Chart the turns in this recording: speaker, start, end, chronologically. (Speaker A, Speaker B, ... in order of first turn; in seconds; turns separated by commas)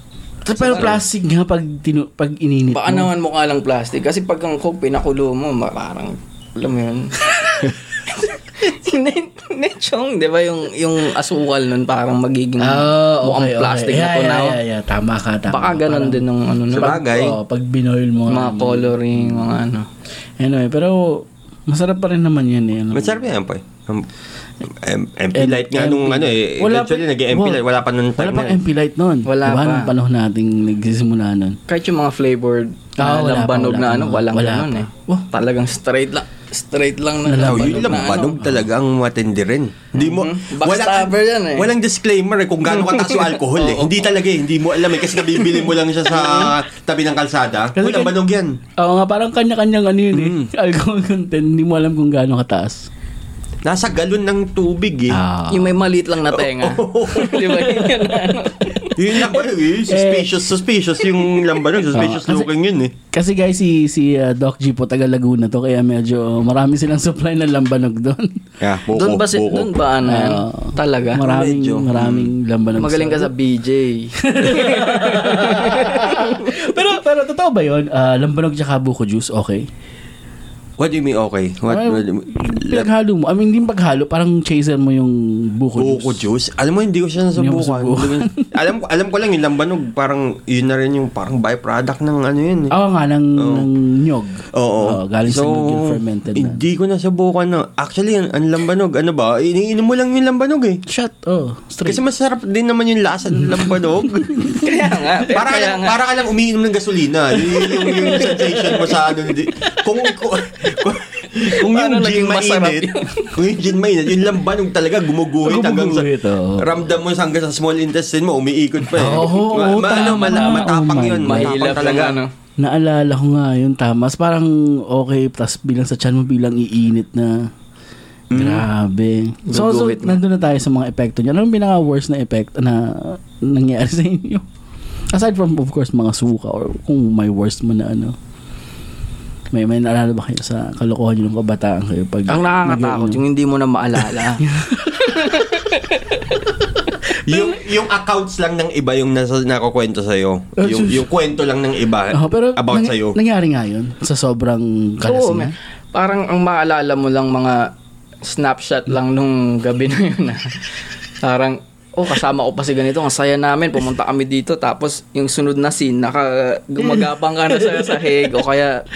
Speaker A: 0.5-3.1, Speaker B: 0.5-0.9, Speaker B: 2.7-14.6, Speaker A: 12.6-16.2, Speaker B: 15.5-17.0, Speaker C: 16.7-17.4, Speaker A: 16.8-19.5, Speaker B: 18.3-19.9, Speaker A: 20.4-23.3, Speaker C: 22.9-24.1, Speaker C: 24.6-28.6, Speaker A: 25.3-27.6, Speaker A: 28.2-31.6, Speaker B: 29.2-29.9, Speaker B: 31.7-38.4, Speaker A: 33.0-35.2, Speaker A: 37.2-38.7, Speaker C: 37.4-48.6, Speaker B: 39.9-41.7, Speaker B: 42.7-44.0, Speaker B: 45.3-46.5, Speaker A: 47.7-48.1, Speaker A: 48.8-52.9, Speaker C: 50.1-50.5, Speaker C: 53.6-55.2, Speaker A: 55.1-55.8, Speaker B: 55.5-59.3, Speaker C: 56.3-57.5, Speaker A: 57.5-58.5, Speaker C: 58.9-62.9, Speaker A: 59.9-60.5, Speaker A: 61.9-62.5, Speaker A: 63.1-68.4, Speaker C: 68.6-69.8, Speaker B: 68.9-71.2, Speaker A: 70.0-73.3, Speaker C: 71.2-72.3, Speaker B: 72.8-76.6, Speaker A: 74.2-79.7, Speaker C: 80.8-82.9, Speaker A: 81.7-86.3, Speaker C: 85.8-92.8, Speaker A: 87.3-88.5, Speaker A: 92.7-96.6, Speaker C: 93.4-93.7, Speaker C: 94.5-100.8, Speaker A: 100.9-102.0, Speaker C: 101.8-104.5, Speaker A: 103.4-105.1, Speaker B: 104.5-106.0, Speaker C: 105.3-122.2, Speaker B: 107.6-108.9, Speaker A: 108.0-108.4, Speaker B: 111.5-113.4, Speaker A: 115.4-116.8, Speaker A: 118.8-121.7, Speaker B: 120.1-120.7, Speaker B: 121.2-122.3, Speaker A: 122.6-127.5, Speaker C: 128.3-128.7, Speaker A: 128.3-134.4, Speaker B: 129.5-130.2, Speaker A: 135.1-138.2, Speaker A: 139.5-143.2, Speaker B: 142.3-144.4, Speaker A: 144.4-145.6, Speaker B: 145.1-146.2, Speaker C: 147.2-153.2, Speaker A: 147.3-147.5, Speaker A: 150.6-151.1, Speaker A: 152.1-155.5, Speaker B: 155.0-168.8